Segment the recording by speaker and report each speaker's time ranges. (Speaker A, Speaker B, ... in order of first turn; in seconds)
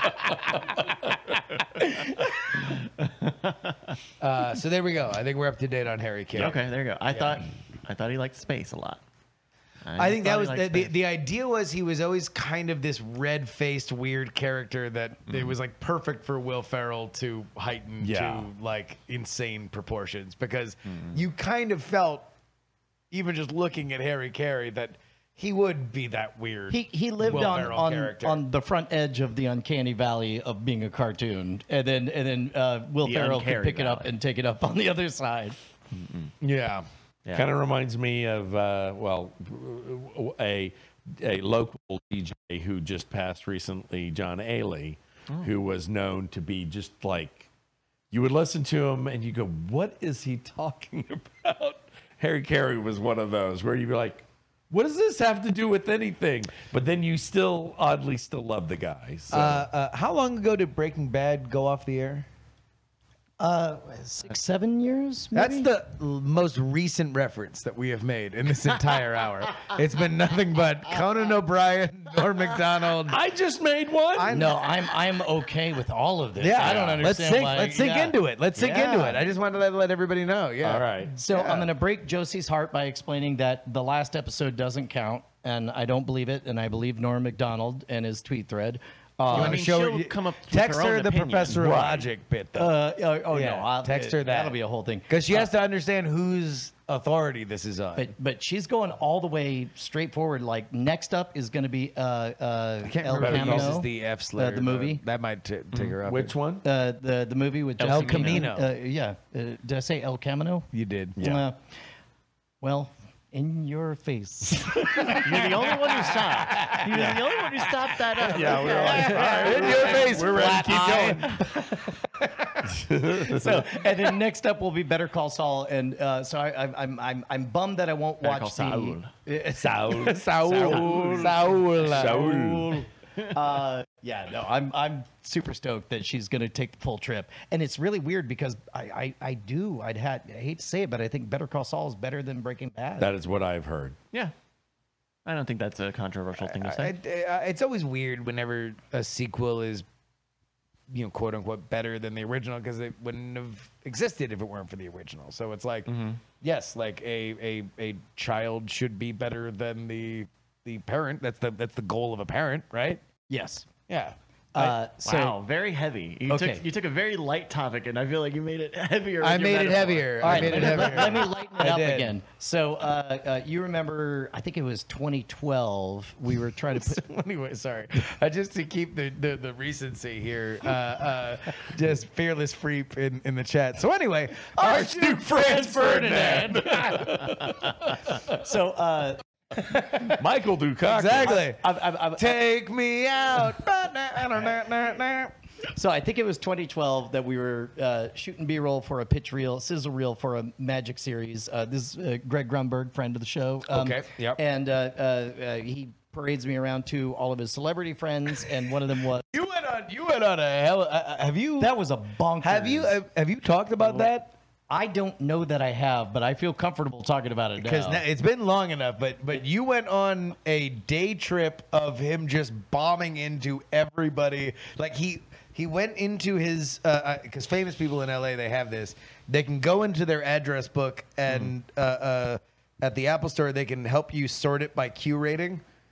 Speaker A: 1.8-2.3, 26.7-35.6, 63.4-65.7, 74.3-79.2, 81.1-89.6, 92.5-95.5, 98.0-105.0, 106.6-111.6, 112.6-115.7, 116.8-120.2, 123.2-143.1, 163.3-163.7, 164.6-165.3, 166.3-166.6, 170.2-177.0, 184.6-186.8, 188.2-190.0, 191.2-192.4, 195.8-209.3, 211.6-213.0, 214.7-218.0
Speaker B: 2.6-4.0, 6.3-9.0, 9.8-10.9, 20.9-21.2, 33.0-34.1, 35.9-36.3, 89.3-92.0, 107.8-108.5, 115.2-120.2, 128.2-129.1, 145.3-146.9, 155.9-156.2, 165.0-171.4
Speaker C: 4.2-6.6, 7.1-7.4, 10.0-22.3, 23.1-28.4, 36.4-36.9, 59.3-62.3, 65.3-73.2, 74.1-74.6, 76.4-81.7, 89.2-92.8, 93.3-94.6, 95.1-98.1, 102.8-106.3, 107.8-108.7, 110.7-111.2, 116.5-116.8, 119.0-121.4, 129.7-132.3, 146.4-149.8, 150.9-163.0, 163.9-164.8, 169.2-172.1, 176.7-187.6, 190.8-195.3, 203.7-204.4, 209.3-211.7, 212.4-214.3, 217.6-235.6
Speaker D: 18.0-18.5, 37.3-47.5, 48.1-59.6, 73.1-74.5, 76.6-77.0, 80.6-81.1, 91.5-92.1, 103.2-103.8, 105.7-106.7, 111.2-111.4, 116.6-117.2, 118.2-121.4, 122.6-123.9, 129.6-132.8, 143.0-144.0, 184.6-188.0, 189.9-191.4